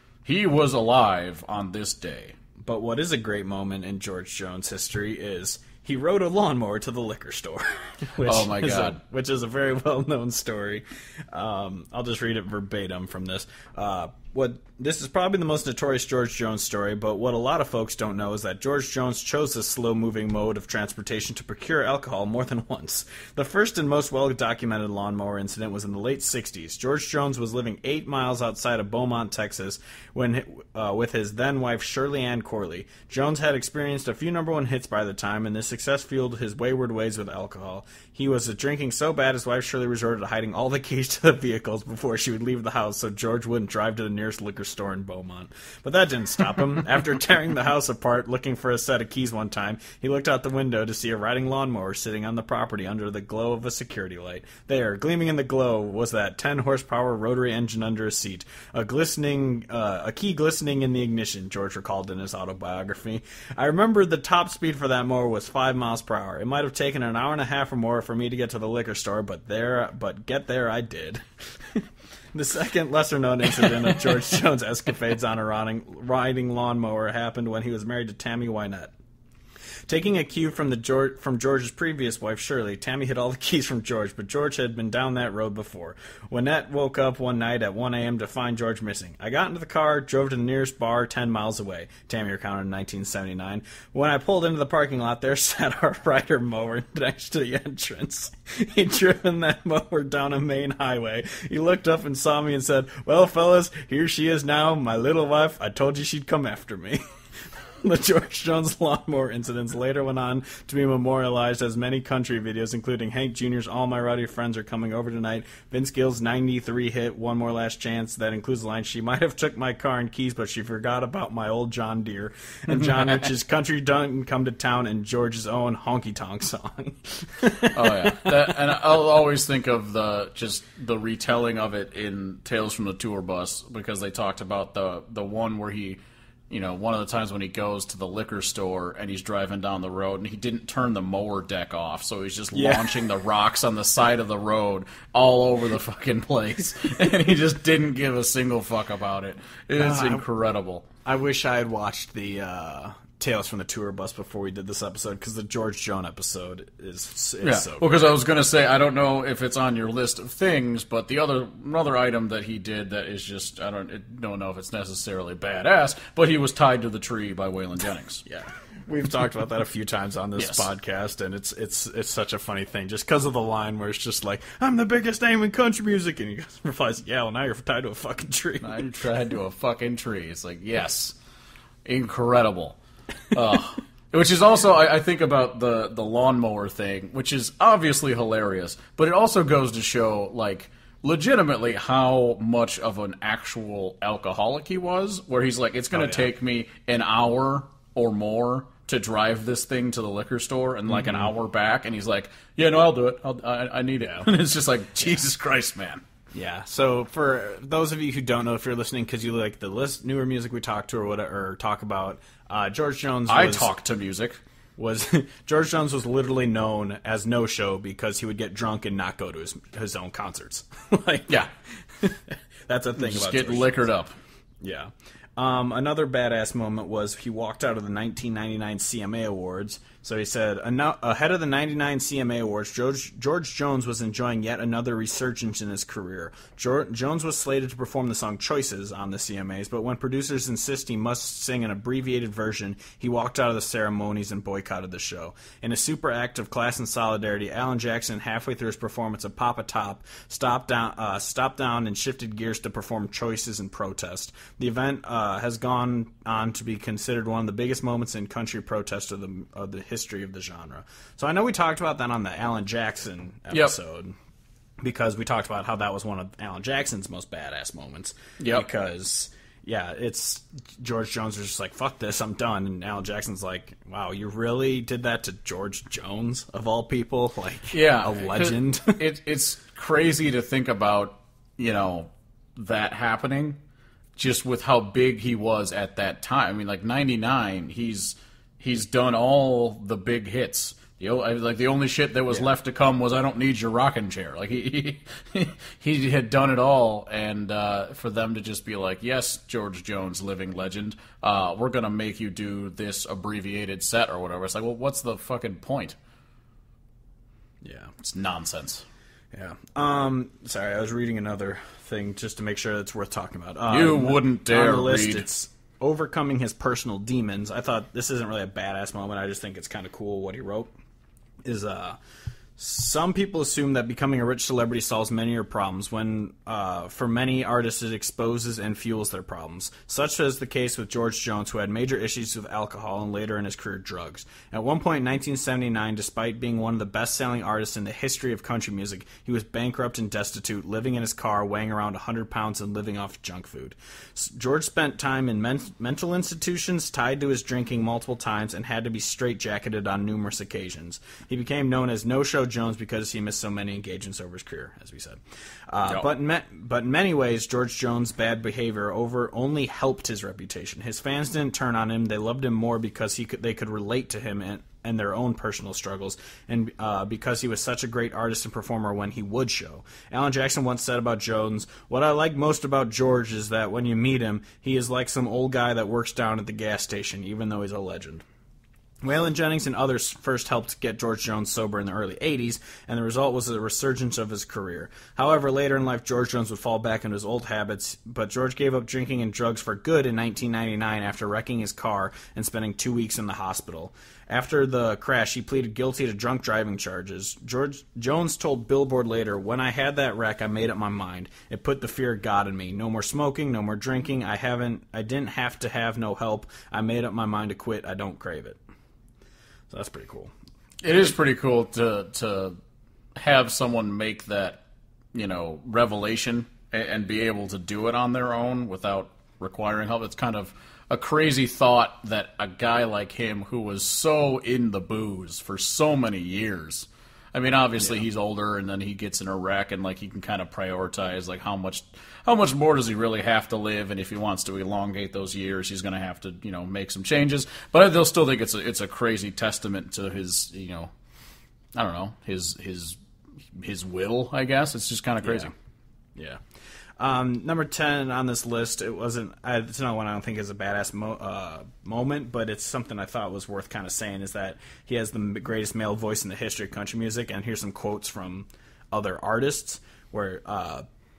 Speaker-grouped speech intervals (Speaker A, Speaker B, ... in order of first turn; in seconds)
Speaker A: 0.2-2.3, 8.2-9.0, 127.7-136.0, 136.5-150.8, 157.4-168.2, 170.4-170.7, 178.6-181.1, 181.8-182.8, 183.3-206.0, 213.3-214.4, 223.0-224.2, 268.4-268.6, 277.7-283.6, 284.2-305.9, 308.0-308.8, 313.7-315.2, 410.8-412.6, 413.2-414.6, 415.1-440.9, 441.8-443.0, 443.6-445.5
Speaker B: 2.6-78.9, 79.9-107.0, 107.8-128.5, 142.5-143.1, 149.8-150.2, 151.0-158.1, 168.2-178.8, 195.9-196.3, 200.9-201.3, 204.0-204.3, 206.3-213.7, 214.8-221.5, 222.0-223.9, 224.6-264.1, 264.8-279.0, 307.6-307.9, 309.3-320.7, 321.4-322.0, 322.6-378.2, 379.0-408.6, 409.7-410.3, 445.2-445.5, 447.0-460.8